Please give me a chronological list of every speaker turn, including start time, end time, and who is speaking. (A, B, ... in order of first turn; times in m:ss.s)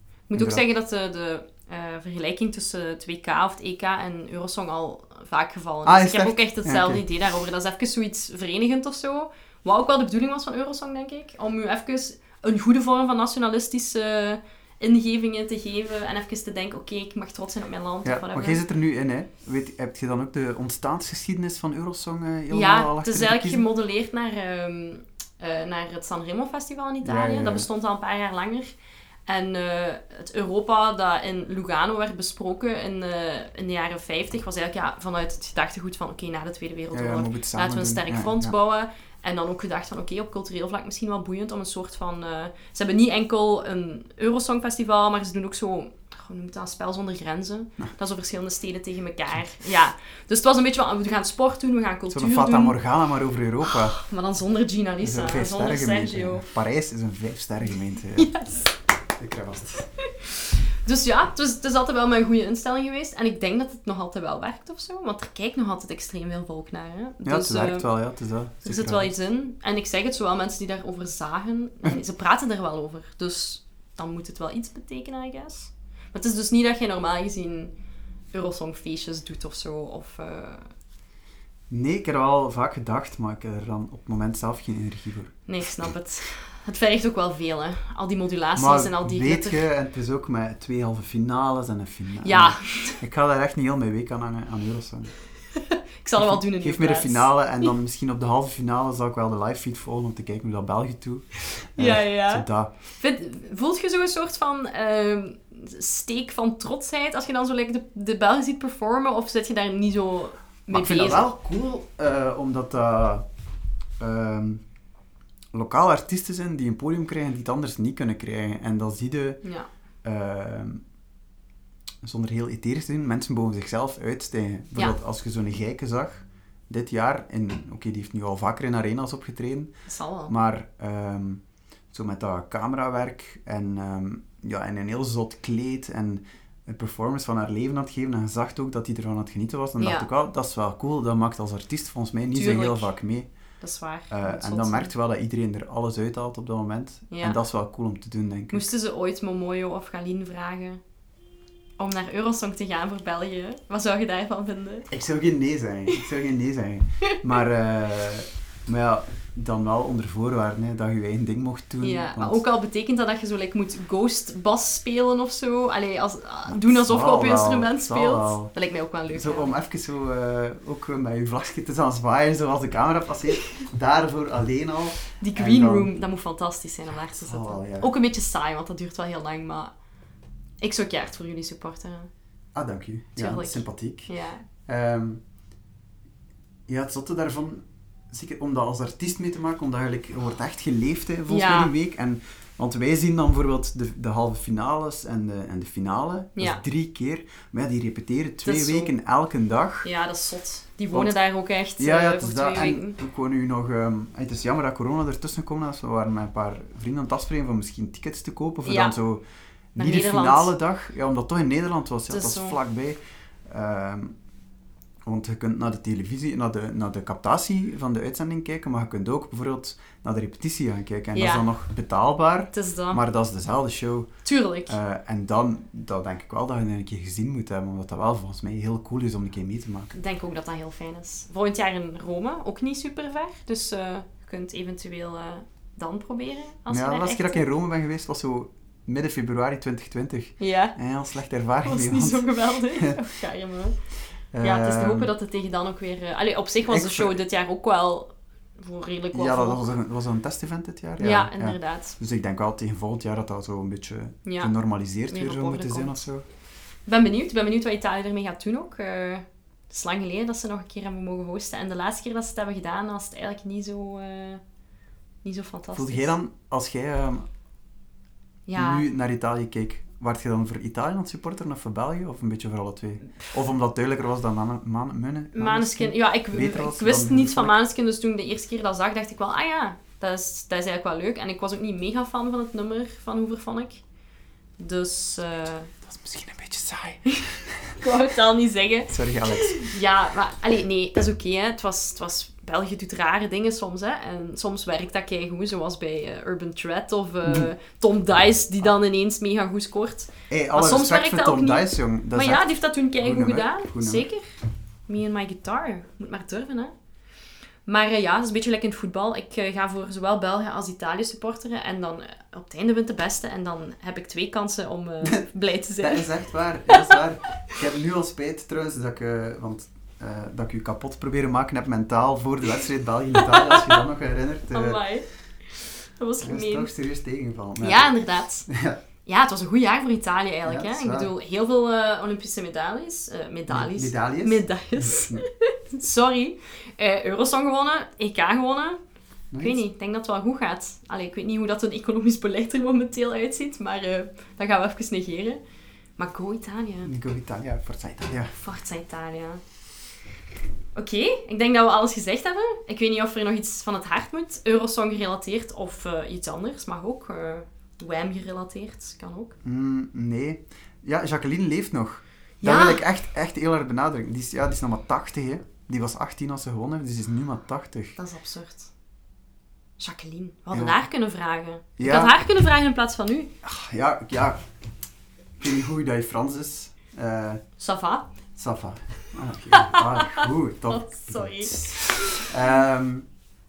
0:00.3-0:18.6 A
0:00.3-0:00.6 B
0:05.8-0:07.0 B
0:18.0-0:23.6 B
0:22.5-0:28.7 A
0:27.0-0:27.7 B
0:29.2-0:52.8 A
0:36.9-0:38.5 B
0:52.1-0:54.0 B
0:53.6-0:56.5 A
0:55.0-0:58.3 B
0:58.2-0:58.7 A
0:59.1-0:59.9 B
1:00.8-1:07.9 A
1:07.2-1:09.1 B
1:08.6-1:17.7 A
1:18.3-1:20.7 A
1:21.7-1:25.4 B
1:25.5-1:29.6 A
1:28.6-1:35.1 B
1:32.2-1:33.0 A
1:35.6-1:37.7 A
1:36.2-1:42.7 B
1:41.8-1:42.4 A
1:43.0-1:51.3 A
1:50.7-1:53.2 B
1:54.0-1:54.6 B
1:55.5-1:59.4 B
2:00.0-2:00.8 B
2:02.0-2:23.3 B
2:09.9-2:10.3 A
2:19.8-2:20.1 A
2:22.3-2:22.9 A
2:23.6-2:24.9 A
2:24.1-2:28.7 B
2:27.1-2:27.4 A
2:28.5-2:30.8 A
2:31.8-2:34.9 A
2:34.9-2:42.4 B
2:41.8-2:49.5 A
2:46.5-2:48.5 B
2:49.1-2:55.9 B
2:55.2-2:59.7 A
2:57.1-2:57.9 B
3:00.6-3:02.1 A
3:02.5-3:04.1 B
3:03.2-3:04.4 A
3:04.6-3:05.2 B
3:06.7-3:19.9 B
3:11.3-3:11.7 A
3:16.4-3:16.6 A
3:18.4-3:18.9 A
3:19.8-3:23.0 A
3:21.8-3:29.2 B
3:28.6-3:28.9 A
3:29.7-3:34.2 B
3:29.8-3:30.5 A
3:32.1-3:32.6 A
3:35.0-3:49.9 B
3:41.1-3:41.5 A
3:42.5-3:43.0 A
3:44.2-3:44.8 A
3:49.9-3:57.5 A
3:56.7-4:03.0 B
4:00.4-4:00.8 A
4:01.6-4:03.7 A
4:04.3-4:05.1 B
4:04.4-4:09.6 A
4:06.7-4:07.2 B
4:09.1-4:16.2 B
4:11.0-4:12.0 A
4:14.2-4:14.5 A
4:15.1-4:16.0 A
4:16.8-4:24.4 A
4:25.2-4:26.1 A
4:25.7-4:27.3 B
4:28.5-4:28.8 A
4:28.5-4:37.6 B
4:35.3-4:43.8 A
4:44.6-4:45.7 A
4:45.8-4:47.7 B
4:47.1-5:04.2 A
4:48.9-4:49.7 B
4:57.2-4:57.5 B
5:00.3-5:04.0 B
5:04.9-5:06.7 A
5:07.6-5:16.1 A
5:15.8-5:24.8 B
5:16.7-5:17.0 A
5:23.2-5:23.8 A
5:24.5-5:26.7 A
5:26.2-5:28.8 B
5:27.6-5:28.5 A
5:29.0-5:38.8 A
5:30.4-5:31.1 B
5:33.5-5:35.2 B
5:39.3-5:39.6 B
5:39.4-5:45.4 A
5:46.0-5:46.9 A
5:46.8-5:48.3 B
5:48.3-5:49.4 A
5:50.7-5:59.4 A
5:59.4-6:08.0 B
6:02.4-6:02.8 A
6:08.0-6:08.7 A
6:09.8-6:13.3 A
6:10.5-6:10.8 B
6:11.8-6:12.2 B
6:13.4-6:14.4 B
6:15.4-6:17.4 B
6:17.6-6:18.1 A
6:18.3-6:23.1 B
6:19.5-6:22.3 A